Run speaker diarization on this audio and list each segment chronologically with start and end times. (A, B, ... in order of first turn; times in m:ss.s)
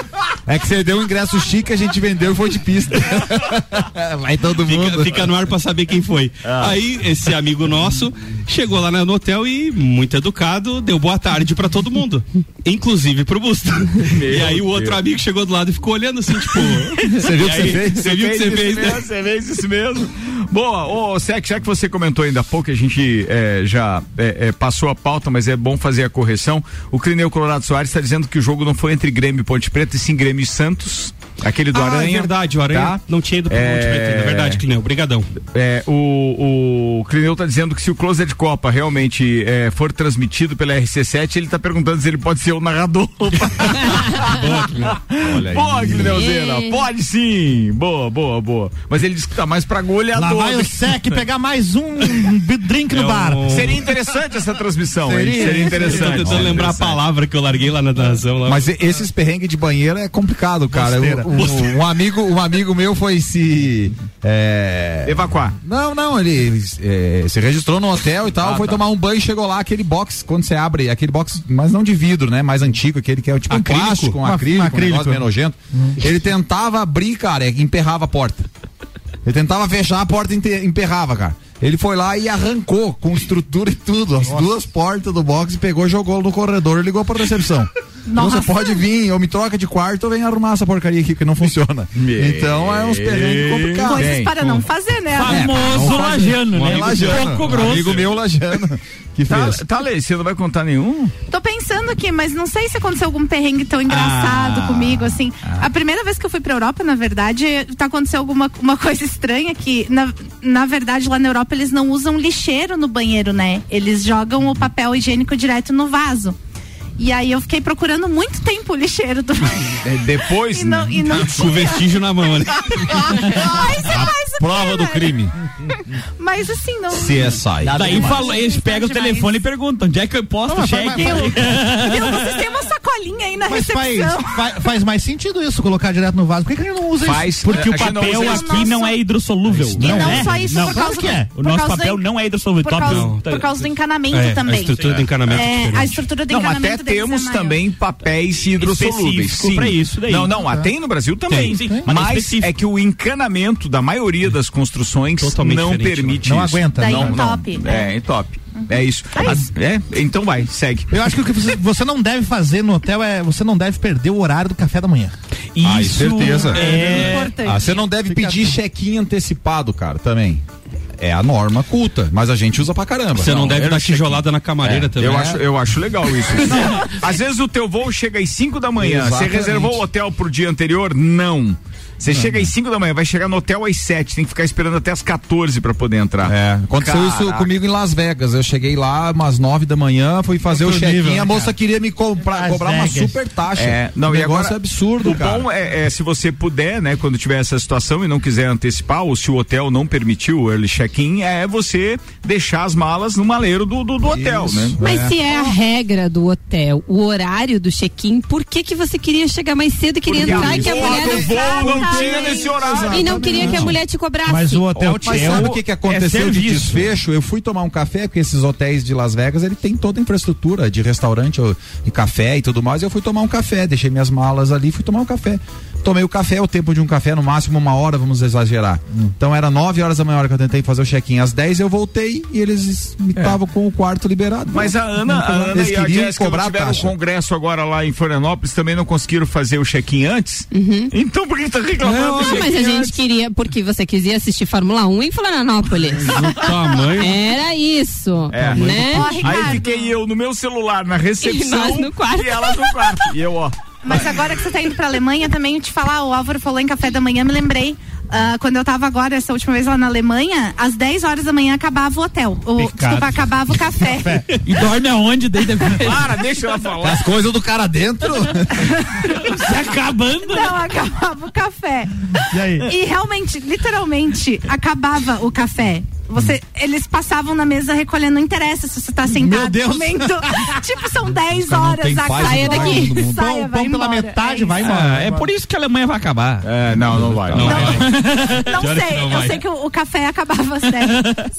0:00.4-0:05.2 A
0:04.6-0:19.0 B
0:06.4-0:06.8 C
0:14.0-0:15.0 C
0:17.1-0:18.1 A
0:17.4-0:34.6 C
0:31.7-0:35.3 B
0:35.5-0:51.2 C
0:44.2-0:45.0 B
0:45.2-0:46.2 A
0:46.1-0:46.8 D
0:50.1-0:53.6 E
0:52.9-0:53.9 B
0:53.5-0:56.9 C
0:55.0-0:56.1 E
0:55.4-0:56.9 A
0:55.6-0:58.7 B
0:58.4-1:18.5 A
1:00.7-1:01.4 E
1:05.0-1:05.6 C
1:08.4-1:08.8 C
1:13.5-1:16.0 E
1:19.2-1:34.2 A
1:24.2-1:24.5 E
1:28.1-1:28.8 F
1:32.0-1:34.3 C
1:33.8-1:36.1 F
1:34.4-1:34.6 B
1:35.1-1:38.0 G
1:35.3-1:39.6 A
1:36.3-1:38.1 B
1:39.3-1:41.1 C
1:41.3-1:56.4 F
1:43.9-1:44.7 G
1:57.0-1:59.8 F
1:59.8-2:01.2 C
2:00.5-2:01.8 F
2:01.1-2:03.1 B
2:02.9-2:05.2 F
2:03.8-2:05.3 A
2:06.2-2:09.3 F
2:06.9-2:08.1 A
2:07.6-2:12.4 G
2:10.5-2:11.6 E
2:11.0-2:14.4 F
2:13.4-2:18.0 E
2:17.0-2:18.7 C
2:17.4-2:23.5 G
2:17.8-2:19.0 F
2:19.6-2:21.3 E
2:19.8-2:22.0 F
2:22.6-2:27.6 F
2:22.8-2:23.2 B
2:24.1-2:26.0 B
2:26.3-2:40.9 C
2:28.6-2:30.4 G
2:30.3-2:30.7 E
2:31.3-2:31.5 B
2:31.3-2:32.5 G
2:31.5-2:31.8 E
2:35.2-2:36.3 B
2:36.2-2:37.2 E
2:36.8-2:37.9 F
2:39.1-2:39.4 F
2:40.9-2:45.1 E
2:45.6-2:47.3 G
2:45.6-2:50.4 A
2:46.5-2:47.7 F
2:46.6-2:47.1 E
2:47.8-2:48.6 E
2:51.0-2:53.8 A
2:53.1-2:55.4 B
2:53.3-2:54.2 C
2:54.6-2:55.3 A
2:54.9-3:07.5 C
2:58.8-2:59.8 A
3:02.1-3:02.5 A
3:06.2-3:15.5 A
3:10.4-3:11.5 E
3:12.2-3:13.2 E
3:13.5-3:24.8 C
3:24.0-3:25.1 A
3:24.8-3:31.3 D
3:30.0-3:33.8 C
3:30.1-3:33.8 A
3:30.7-3:33.2 F
3:32.9-3:34.7 D
3:34.2-3:35.6 E
3:34.8-3:56.9 A
3:35.0-3:36.9 G
3:54.5-4:03.0 C
4:00.5-4:00.9 D
4:01.8-4:02.4 B
4:02.2-4:06.2 D
4:06.1-4:07.2 B
4:07.0-4:09.3 D
4:08.3-4:14.0 C
4:08.4-4:09.1 B
4:08.8-4:09.9 F
4:11.2-4:13.1 D
4:13.8-4:24.2 F
4:22.6-4:23.2 E
4:23.8-4:24.3 E
4:24.4-4:26.1 G
4:25.8-4:27.1 C
4:26.8-4:28.6 A
4:28.8-4:29.4 F
4:29.1-4:30.6 G
4:30.2-4:44.6 F
4:32.3-4:32.7 E
4:39.1-4:40.5 E
4:41.3-4:43.2 A
4:42.3-4:45.3 E
4:44.6-4:46.5 G
4:46.4-4:47.8 C
4:46.9-4:47.7 A
4:47.3-4:47.9 B
4:47.4-4:51.1 F
4:47.5-4:48.5 G
4:48.5-4:49.4 B
4:50.9-4:51.2 G